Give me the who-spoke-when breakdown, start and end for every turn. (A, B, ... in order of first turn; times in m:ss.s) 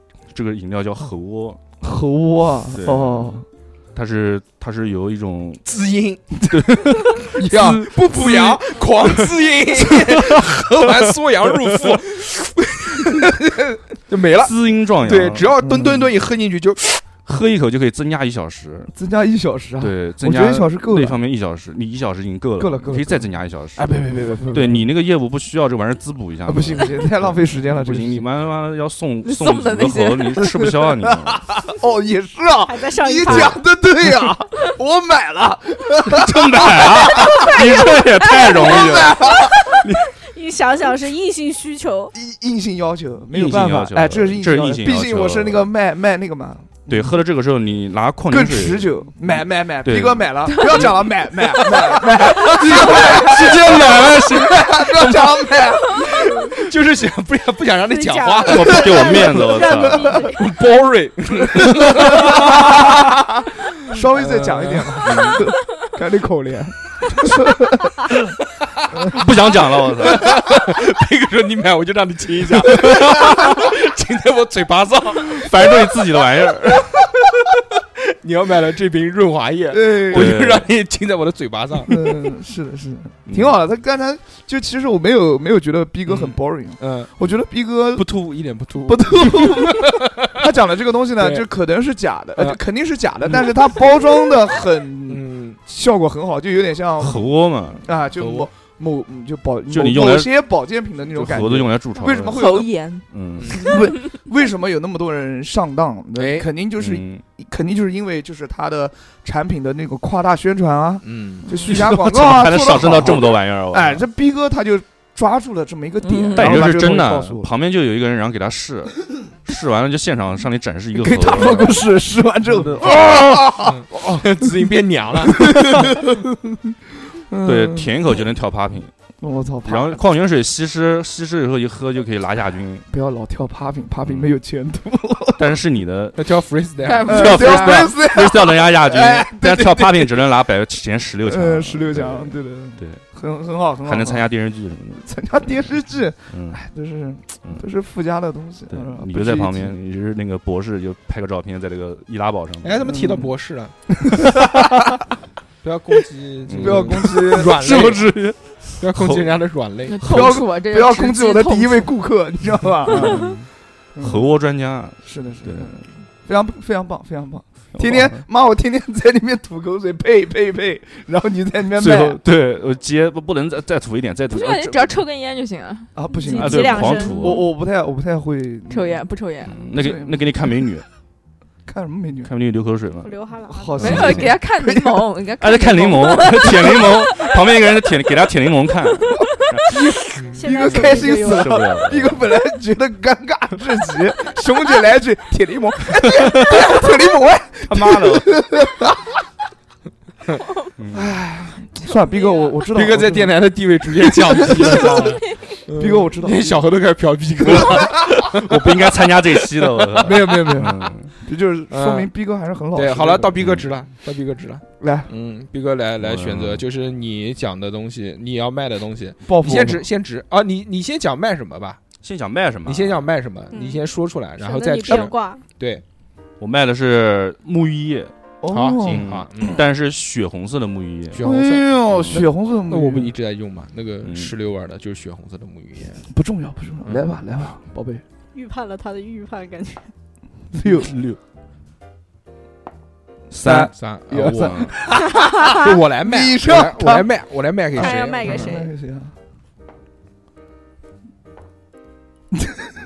0:00.3-0:01.6 A
0:01.8-0:03.4 B
0:02.7-0:03.4 A
0:03.9-0:05.6 A
0:05.6-0:06.4 C
0:06.5-0:07.8 A
0:07.0-0:08.6 B
0:07.4-0:17.2 C
0:10.1-0:10.4 A
0:14.4-0:15.5 A
0:15.6-0:16.1 B
0:17.2-0:18.9 A
0:18.9-0:21.2 B
0:19.8-0:23.9 A
0:22.6-0:24.9 B
0:24.5-0:31.5 A
0:26.4-0:28.3 B
0:29.2-0:30.4 D
0:30.4-0:37.6 B
0:32.6-0:33.6 E
0:33.2-0:33.5 A
0:36.1-0:39.3 A
0:37.3-0:42.1 E
0:38.6-0:39.8 B
0:42.1-0:47.2 B
0:43.3-0:45.7 A
0:46.9-0:50.9 A
0:48.3-0:56.7 B
0:51.6-0:59.2 C
0:52.7-0:55.3 A
0:57.9-1:00.5 E
0:58.4-1:00.2 A
0:58.8-1:00.2 B
1:00.3-1:03.0 C
1:01.6-1:08.1 B
1:03.9-1:05.4 C
1:05.0-1:05.4 A
1:09.0-1:10.4 A
1:10.0-1:15.8 C
1:12.8-1:13.4 A
1:15.3-1:17.0 A
1:18.2-1:22.1 C
1:19.7-1:20.3 B
1:20.1-1:20.7 A
1:21.9-1:28.1 B
1:23.3-1:23.6 A
1:26.1-1:27.1 C
1:28.0-1:30.4 C
1:28.9-1:37.2 B
1:31.2-1:31.4 C
1:33.2-1:34.0 C
1:35.1-1:35.6 C
1:37.0-1:37.9 A
1:37.8-1:42.7 B
1:38.2-1:38.5 C
1:39.7-1:40.3 A
1:41.1-1:42.4 A
1:42.3-1:43.0 D
1:43.1-1:43.6 A
1:43.5-1:57.5 B
1:43.6-1:43.9 D
1:46.2-1:46.5 C
1:46.8-1:47.2 A
1:51.0-1:51.9 C
1:51.7-1:54.0 A
1:56.0-1:56.6 D
1:56.3-2:01.8 A
2:01.0-2:04.5 B
2:02.5-2:03.2 A
2:02.8-2:06.0 C
2:05.3-2:08.2 B
2:07.4-2:08.9 A
2:09.2-2:10.0 B
2:09.6-2:12.9 A
2:12.9-2:15.5 B
2:14.0-2:14.3 A
2:15.4-2:16.2 A
2:16.2-2:17.4 C
2:16.8-2:17.9 D
2:17.0-2:23.0 A
2:17.1-2:20.1 B
2:21.2-2:24.3 B
2:23.8-2:25.4 A
2:25.0-2:29.7 B
2:26.3-2:26.6 A
2:28.7-2:32.9 A
2:32.6-2:33.7 C
2:32.9-2:33.3 B
2:34.0-2:34.9 B
2:35.6-2:38.1 C
2:36.5-2:39.3 A
2:36.6-2:37.8 B
2:38.8-2:40.0 C
2:39.9-2:41.9 D
2:40.0-2:43.4 B
2:42.9-2:43.4 A
2:44.0-2:44.2 B
2:44.0-2:45.7 A
2:45.0-2:52.2 B
2:47.7-2:48.2 A
2:51.7-2:55.0 A
2:54.3-2:56.6 D
2:55.9-2:59.0 B
2:56.2-2:57.4 E
2:56.4-2:57.4 A
2:58.7-2:59.6 D
2:59.4-3:00.9 A
2:59.6-3:00.6 B
3:01.6-3:02.3 B
3:02.2-3:03.1 A
3:03.0-3:04.0 E
3:03.5-3:05.1 B
3:03.8-3:04.4 A
3:03.8-3:07.1 D
3:05.4-3:09.8 A
3:09.7-3:19.1 B
3:10.3-3:11.6 E
3:10.7-3:12.2 A
3:16.1-3:16.7 A
3:17.7-3:18.3 A
3:20.8-3:21.1 A
3:20.9-3:23.4 B
3:22.7-3:30.7 C
3:24.3-3:25.2 B
3:25.7-3:26.6 B
3:27.4-3:31.1 A
3:27.6-3:28.1 B
3:30.0-3:33.4 B
3:31.7-3:32.1 C
3:32.7-3:41.8 C
3:33.4-3:33.6 A
3:34.8-3:35.1 B
3:36.0-3:36.6 A
3:39.2-3:39.9 B
3:42.0-3:43.0 A
3:42.6-3:45.8 C
3:43.5-3:43.9 E
3:44.4-3:45.4 E
3:46.4-3:48.1 A
3:48.4-3:49.5 B
3:48.5-3:49.6 C
3:48.9-3:51.3 A
3:51.1-3:56.0 C
3:51.2-3:53.1 B
3:51.8-3:52.3 A
3:54.0-3:54.3 A
3:56.1-3:58.0 B
3:58.3-3:59.9 E
4:00.5-4:00.9 B
4:00.6-4:01.2 A
4:03.3-4:04.7 A
4:03.4-4:07.1 B
4:03.7-4:04.7 C
4:05.1-4:05.7 E
4:05.4-4:08.5 C
4:07.8-4:08.7 E
4:07.8-4:09.1 B